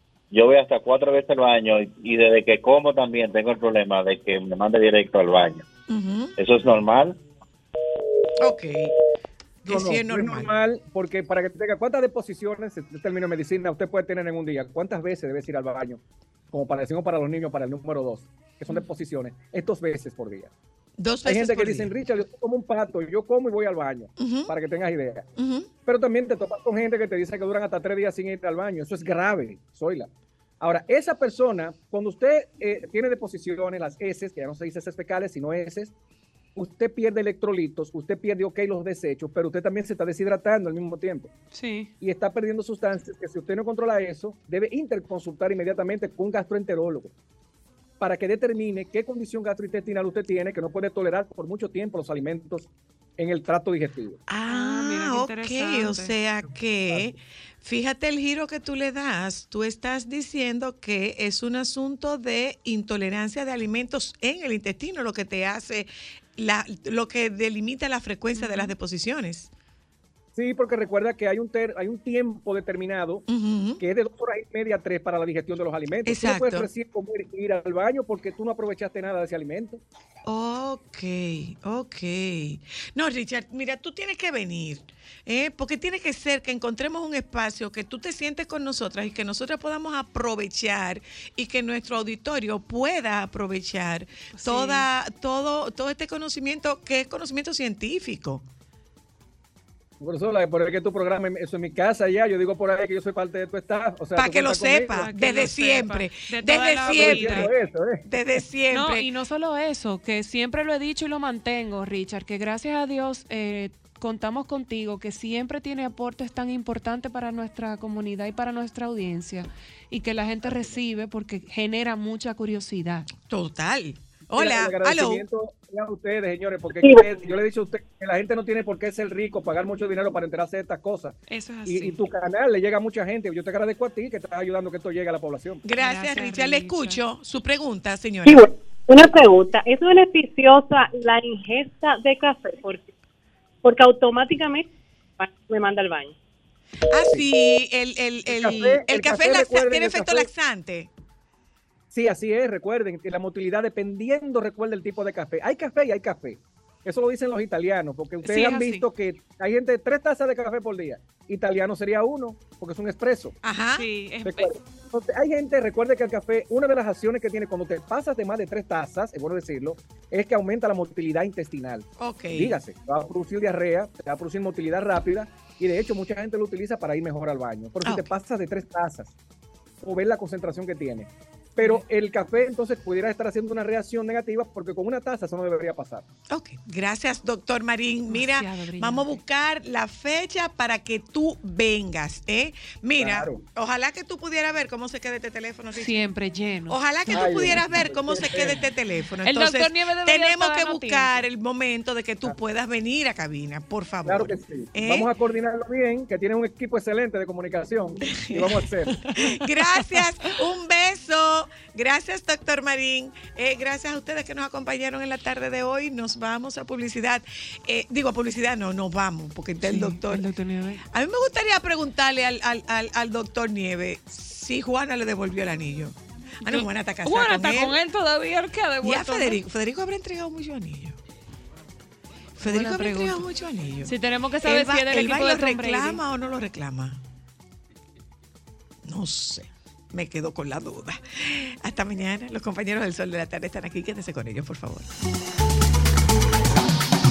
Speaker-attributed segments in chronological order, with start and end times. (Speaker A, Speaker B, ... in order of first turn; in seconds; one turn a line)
Speaker A: 0.3-5.7
Speaker B: 5.9-6.3
Speaker A: 6.4-7.2
Speaker B: 8.4-8.9
Speaker B: 9.6-10.5
Speaker C: 9.7-16.0
Speaker C: 16.5-20.5
Speaker B: 21.0-21.9
Speaker C: 21.2-25.2
Speaker B: 24.2-24.5
Speaker B: 25.4-25.7
Speaker C: 25.9-30.1
Speaker C: 30.6-35.9
Speaker C: 36.5-41.3
Speaker D: 41.5-41.9
Speaker C: 42.0-47.1
Speaker C: 48.0-54.2
Speaker B: 54.3-69.5
Speaker D: 54.5-56.1
Speaker D: 68.3-68.7
Speaker C: 70.3-73.2
Speaker B: 73.3-73.8
Speaker C: 73.8-79.8
Speaker B: 76.0-76.7
Speaker B: 80.2-98.4
Speaker D: 94.3-94.9
Speaker C: 100.0-105.0
Speaker B: 104.2-107.5
Speaker D: 104.9-107.5
Speaker C: 106.8-108.0
Speaker B: 108.0-109.1
Speaker D: 108.7-123.1
Speaker B: 123.2-125.2
Speaker C: 124.3-131.1
Speaker E: 126.8-127.0
Speaker D: 131.3-132.0
Speaker C: 131.7-135.6
Speaker B: 135.6-138.5
Speaker D: 135.8-137.0
Speaker E: 138.2-142.9
Speaker E: 143.6-144.7
Speaker E: 145.2-146.1
Speaker B: 146.9-150.9
Speaker C: 148.3-150.3
Speaker C: 151.9-163.3
Speaker D: 158.2-158.8
Speaker B: 163.4-163.8
Speaker D: 163.8-164.5
Speaker C: 164.2-179.1
Speaker B: 172.0-172.6
Speaker B: 177.8-178.1
Speaker C: 179.8-186.1
Speaker B: 186.3-196.0
Speaker D: 188.1-189.2
Speaker C: 193.0-193.4
Speaker D: 195.7-197.8
Speaker B: 196.7-205.1
Speaker C: 197.1-198.6
Speaker D: 199.2-201.2
Speaker C: 204.1-208.9
Speaker B: 208.1-220.2
Speaker D: 219.6-220.8
Speaker B: 220.9-227.8
Speaker D: 226.4-229.4
Speaker B: 228.8-230.9
Speaker B: 232.4-237.0
Speaker D: 232.4-233.2
Speaker D: 233.8-236.0
Speaker B: 238.8-244.9